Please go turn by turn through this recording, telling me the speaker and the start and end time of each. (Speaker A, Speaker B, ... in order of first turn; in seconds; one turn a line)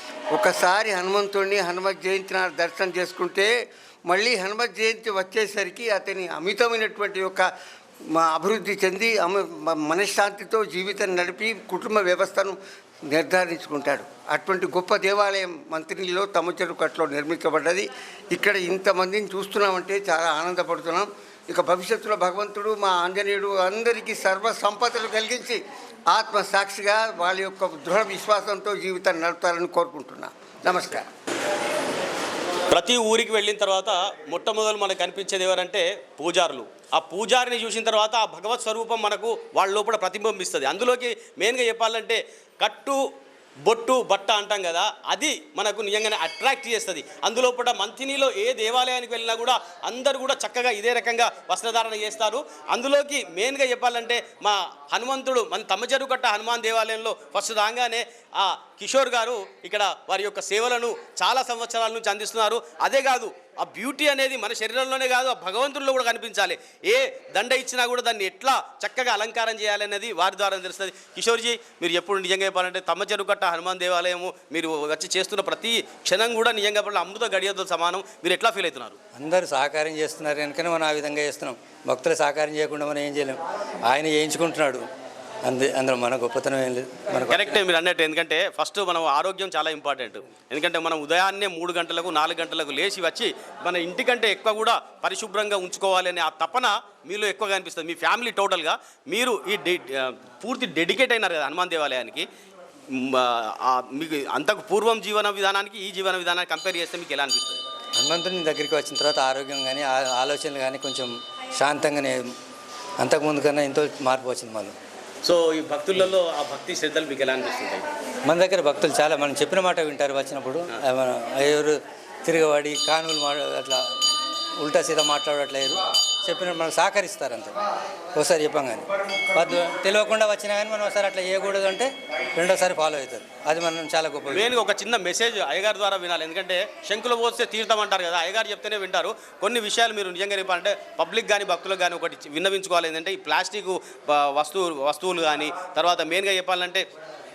Speaker A: 0.3-3.5
Speaker A: 4.1-7.5
Speaker A: 8.1-31.1
Speaker B: 32.7-43.0
Speaker B: 43.7-79.0
Speaker C: 79.2-84.8
Speaker C: 85.5-87.5
Speaker B: 87.3-102.3
Speaker B: 103.0-107.6
Speaker C: 108.0-112.3
Speaker C: 113.0-114.8
Speaker B: 115.2-117.8
Speaker C: 118.3-123.8
Speaker C: 124.6-127.5
Speaker C: 128.2-134.5
Speaker B: 134.3-146.8